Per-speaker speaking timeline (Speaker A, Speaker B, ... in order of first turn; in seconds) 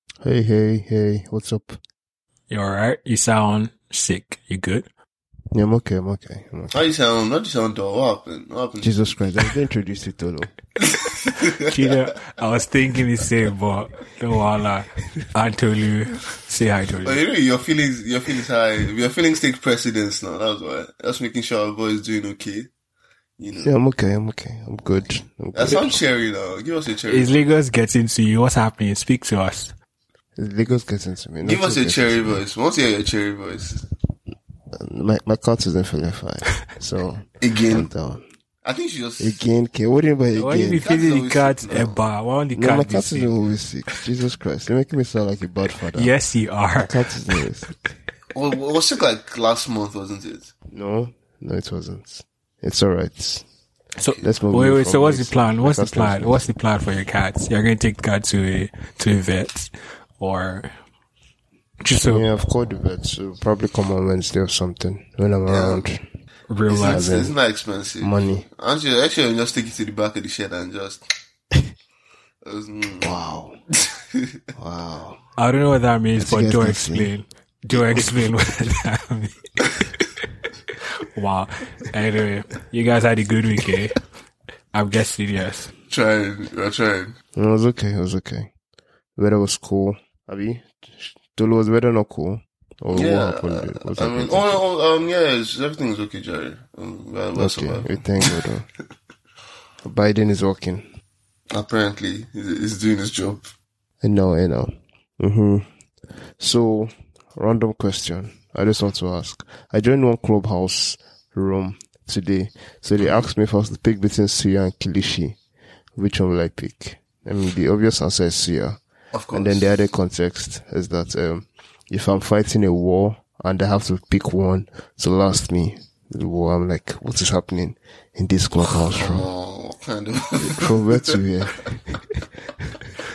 Speaker A: 0.2-1.8, 5.5-6.8, 8.8-10.5, 23.6-26.0, 30.4-32.4, 34.7-38.2, 39.2-40.9, 42.5-46.1, 46.8-48.0, 50.7-53.5, 54.2-56.5, 62.0-66.0, 66.8-67.3, 68.0-68.5, 73.0-73.6, 74.5-75.2, 76.2-77.1, 87.3-88.5, 89.2-94.6, 97.3-98.7, 99.8-100.9, 104.0-105.7, 106.4-115.4, 116.0-118.8, 119.3-129.3, 130.4-132.7
Speaker B: 2.5-4.9, 11.6-17.2, 27.1-29.7, 40.4-43.3, 45.9-46.9, 54.0-60.7, 61.8-62.2, 66.5-67.1, 75.4-79.6, 81.1-84.0, 84.7-85.7
Speaker C: 6.7-9.0, 10.8-11.9, 17.0-22.7, 23.4-23.7, 25.5-27.4, 31.4-33.9, 37.4-37.9, 38.6-39.4, 40.7-42.0, 48.3-50.5, 54.0-54.2, 65.5-65.8, 66.7-71.0, 72.4-73.2, 73.8-74.3, 85.9-87.1, 92.9-98.4, 101.5-103.5, 113.0-113.3, 119.1-119.7, 128.9-131.2